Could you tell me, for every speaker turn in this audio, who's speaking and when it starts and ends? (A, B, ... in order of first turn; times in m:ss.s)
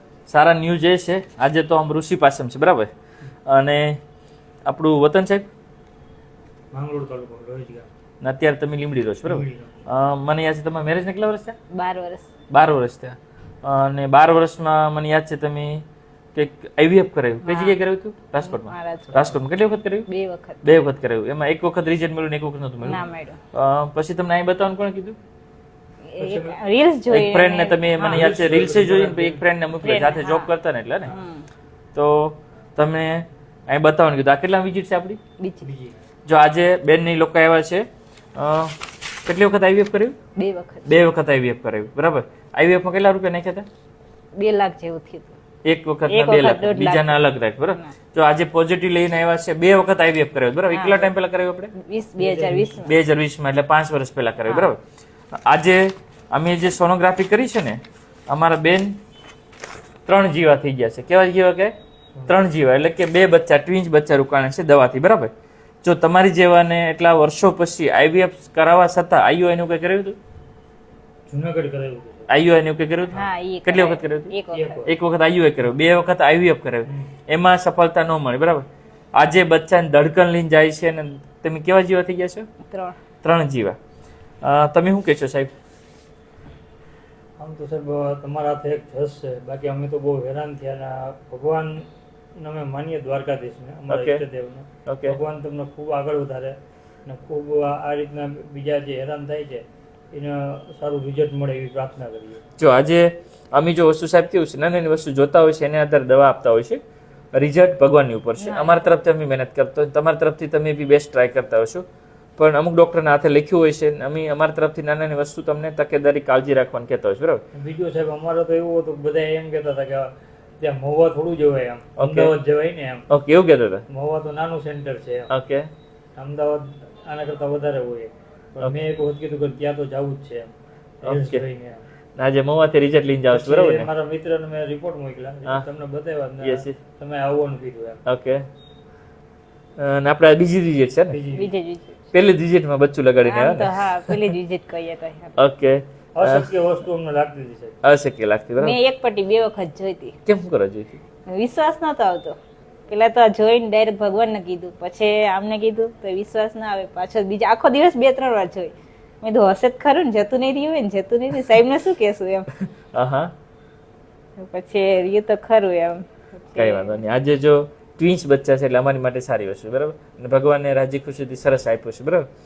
0:00.3-0:02.9 A
0:03.5-0:04.0 A
0:04.6-0:05.5 A
0:06.7-0:07.9 B
0:08.2-0:11.6 A
0:09.2-0:09.8 B
0:11.7-0:12.3 C
0:12.5-0:15.8 A
0:16.3-0:20.1 A
0:17.4-0:17.8 C
0:18.4-0:19.3 C
0:20.1-0:20.6 C
0:20.6-0:25.2 A
0:22.8-0:23.4 C
0:26.1-0:28.2 C
0:26.2-0:26.6 B
0:27.1-0:31.1 A
0:28.0-0:29.4 B
0:29.8-0:30.5 C
0:31.1-0:31.4 C
0:31.9-0:35.2 A
0:35.4-0:35.7 C
0:35.6-0:36.0 B
0:36.2-0:40.2 A
0:40.4-0:40.9 C
0:40.8-0:43.6 A
0:44.3-0:45.3 C
0:45.6-0:51.7 A
0:46.1-0:47.9 C
0:50.7-0:51.1 C
0:51.8-0:52.9 C
0:52.2-0:52.7 B
0:52.7-0:54.8 A
0:54.4-0:54.7 C
0:55.3-0:59.0 A
1:00.0-1:01.7 A
1:02.3-1:05.3 A
1:05.8-1:10.2 A
1:11.3-1:12.3 B
1:12.3-1:14.3 A
1:13.1-1:14.8 C
1:14.5-1:14.9 B
1:14.8-1:22.5 A
1:22.7-1:23.0 C
1:23.2-1:23.8 A
1:24.4-1:25.5 A
1:27.4-1:42.4 B
1:33.9-1:34.2 A
1:34.8-1:35.2 A
1:42.6-1:51.8 A
1:48.4-1:48.9 C
1:52.4-1:57.4 A
1:57.5-2:03.0 B
2:02.0-2:02.3 A
2:03.1-2:03.8 A
2:03.9-2:05.3 B
2:05.3-2:05.7 A
2:06.2-2:11.8 B
2:11.0-2:11.4 A
2:12.2-2:13.9 A
2:13.3-2:18.0 B
2:16.4-2:16.8 A
2:18.0-2:18.4 A
2:19.8-2:21.2 A
2:21.1-2:21.5 B
2:21.3-2:22.0 C
2:22.1-2:24.3 A
2:23.2-2:25.4 C
2:25.4-2:26.5 A
2:26.1-2:27.8 B
2:27.8-2:28.8 A
2:28.6-2:30.2 C
2:30.2-2:31.0 A
2:31.3-2:32.4 C
2:32.9-2:42.5 C
2:42.9-2:43.3 A
2:44.4-2:47.0 C
2:46.5-2:52.3 A